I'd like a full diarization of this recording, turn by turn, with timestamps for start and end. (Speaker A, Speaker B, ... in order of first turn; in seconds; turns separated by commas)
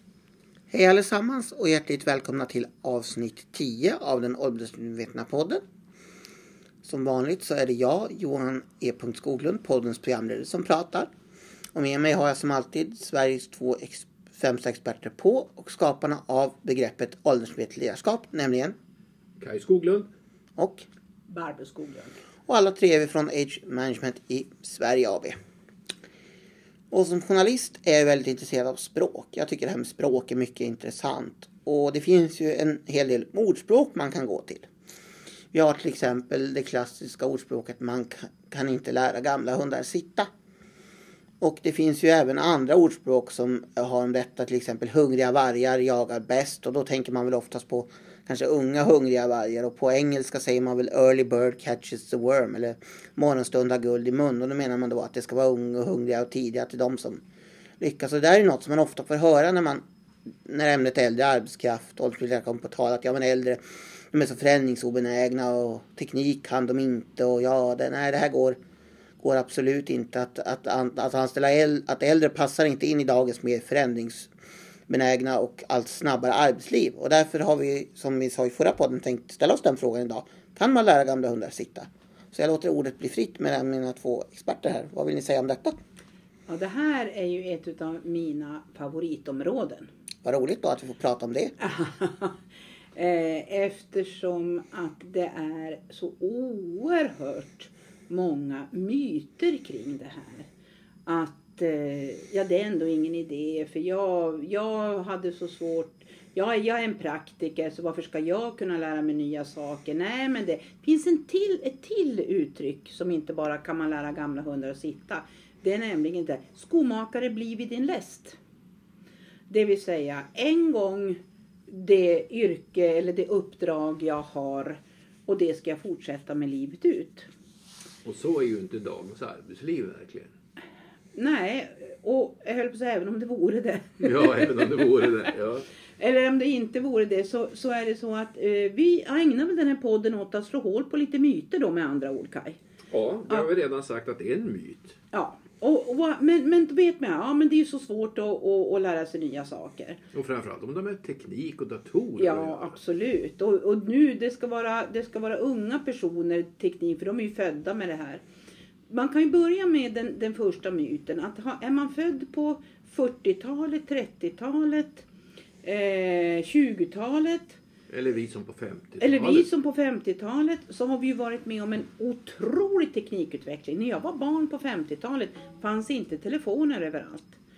Speaker A: 0.7-5.6, Speaker A: 6.8-11.1, Speaker A: 11.8-18.7, Speaker B: 19.4-20.1, Speaker A: 20.6-20.8, Speaker C: 21.3-22.2, Speaker A: 22.5-25.4, Speaker A: 26.9-34.7, Speaker A: 35.5-40.3, Speaker A: 41.4-57.2, Speaker A: 57.8-59.8, Speaker A: 60.5-63.6, Speaker A: 64.1-68.6, Speaker A: 69.2-74.3, Speaker A: 74.9-85.8, Speaker C: 86.5-89.9, Speaker A: 90.2-91.5, Speaker C: 91.6-92.3, Speaker C: 92.9-100.5, Speaker C: 101.0-118.4, Speaker C: 119.5-127.3, Speaker B: 128.0-130.3, Speaker C: 131.1-135.3, Speaker B: 134.0-135.7, Speaker C: 136.0-142.6, Speaker B: 142.9-144.9, Speaker C: 145.1-150.0, Speaker B: 150.1-152.7, Speaker C: 152.2-158.2, Speaker C: 158.9-165.0, Speaker C: 165.6-167.6, Speaker B: 167.9-169.5, Speaker C: 169.0-177.4